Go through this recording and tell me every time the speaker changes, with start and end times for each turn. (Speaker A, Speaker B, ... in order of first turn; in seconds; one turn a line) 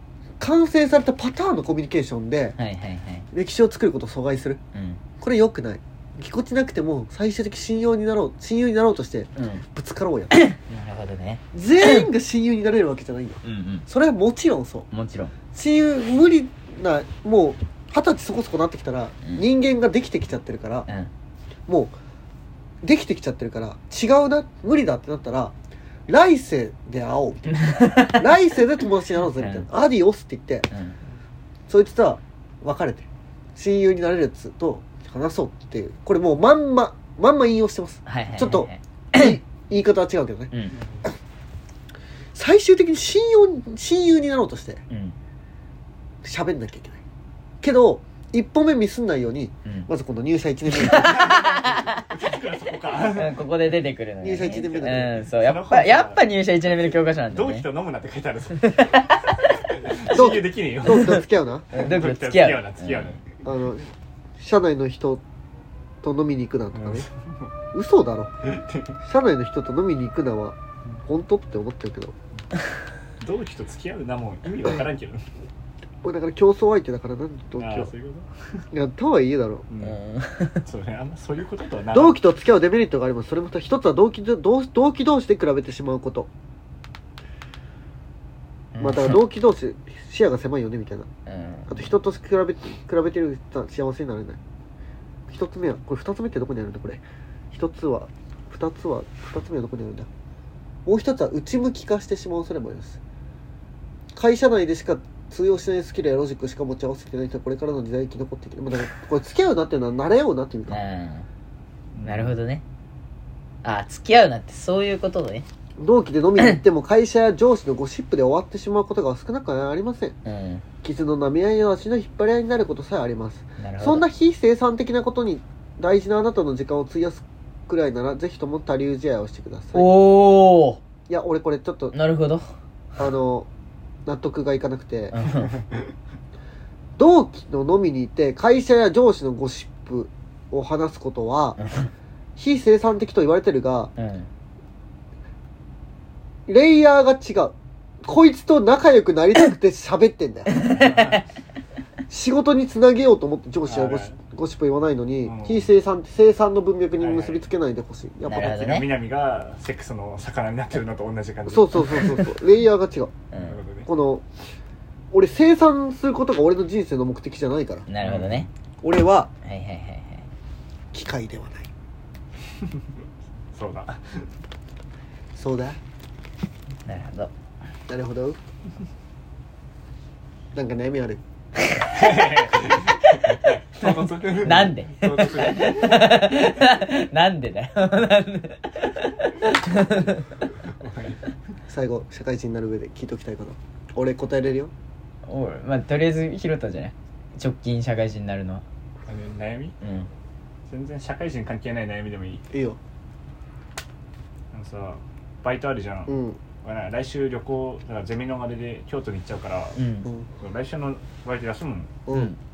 Speaker A: 0.4-2.5
Speaker B: 2.6-3.3
Speaker A: 3.3-4.6
Speaker B: 4.7-5.0
Speaker A: 5.2-10.3
Speaker B: 9.3-9.6
Speaker B: 10.3-12.1
Speaker A: 11.5-14.9
Speaker B: 13.4-13.8
Speaker B: 14.9-15.3
Speaker A: 15.5-20.9
Speaker A: 21.7-21.9
Speaker A: 22.8-25.5
Speaker A: 26.1-30.7
Speaker B: 27.6-28.2
Speaker B: 29.4-29.7
Speaker B: 30.7-30.9
Speaker A: 31.7-40.5
Speaker B: 38.0-39.4
Speaker C: 40.7-41.0
Speaker A: 42.3-44.8
Speaker B: 44.9-45.1
Speaker A: 46.2-47.0
Speaker A: 47.6-51.4
Speaker B: 50.7-52.0
Speaker C: 51.0-53.4
Speaker B: 53.1-57.7
Speaker A: 54.2-55.1
Speaker C: 55.3-56.2
Speaker C: 57.3-59.0
Speaker B: 58.6-59.2
Speaker C: 59.6-63.3
Speaker A: 60.1-61.7
Speaker B: 60.9-61.2
Speaker B: 61.7-63.1
Speaker A: 63.4-65.2
Speaker A: 66.0-67.0
Speaker C: 66.7-67.5
Speaker A: 67.7-68.3
Speaker C: 68.4-69.0
Speaker A: 69.0-72.1
Speaker C: 73.2-75.2
Speaker A: 76.0-77.9
Speaker C: 77.6-78.3
Speaker A: 78.7-79.6
Speaker C: 79.7-80.0
Speaker B: 79.8-80.6
Speaker C: 80.6-82.2
Speaker A: 81.9-86.3
Speaker B: 88.7-89.2
Speaker A: 88.8-91.1
Speaker B: 91.3-91.8
Speaker A: 91.7-94.4
Speaker A: 95.3-100.1
Speaker A: 100.8-103.0
Speaker A: 104.2-110.8
Speaker B: 110.7-111.2
Speaker C: 111.9-112.3
Speaker B: 112.0-112.6
Speaker B: 113.6-115.5
Speaker A: 115.8-120.2
Speaker B: 120.2-120.6
Speaker A: 120.8-129.8
Speaker B: 123.6-124.0
Speaker B: 129.7-130.8
Speaker A: 131.1-131.9
Speaker B: 131.9-132.4
Speaker A: 133.0-133.5
Speaker A: 134.1-135.2
Speaker B: 135.1-135.6
Speaker A: 137.0-141.6
Speaker B: 141.6-141.9
Speaker A: 142.4-143.9
Speaker B: 144.0-144.3
Speaker A: 146.5-150.7
Speaker B: 150.5-151.2
Speaker C: 150.6-151.2
Speaker A: 152.1-158.7
Speaker C: 153.6-154.2
Speaker C: 155.2-155.7
Speaker C: 157.0-157.5
Speaker B: 158.2-158.9
Speaker C: 158.4-162.3
Speaker A: 161.5-163.1
Speaker C: 163.3-163.9
Speaker A: 163.9-164.2
Speaker A: 165.1-167.9
Speaker B: 167.9-168.5
Speaker C: 168.0-168.5
Speaker A: 168.8-169.3
Speaker B: 169.4-170.2
Speaker A: 170.9-171.7
Speaker C: 173.5-174.2
Speaker A: 175.3-175.8
Speaker B: 176.8-177.3
Speaker A: 177.9-178.4
Speaker A: 180.5-181.2
Speaker C: 181.9-186.2
Speaker B: 183.8-190.3
Speaker C: 190.6-191.2
Speaker A: 191.7-194.7
Speaker B: 195.2-198.6
Speaker C: 199.1-199.7
Speaker B: 199.8-200.1
Speaker C: 200.7-202.4
Speaker A: 202.5-202.8
Speaker C: 204.5-209.8
Speaker A: 206.1-206.4
Speaker B: 209.8-210.1
Speaker C: 210.4-212.0
Speaker A: 212.1-212.3
Speaker B: 212.1-212.3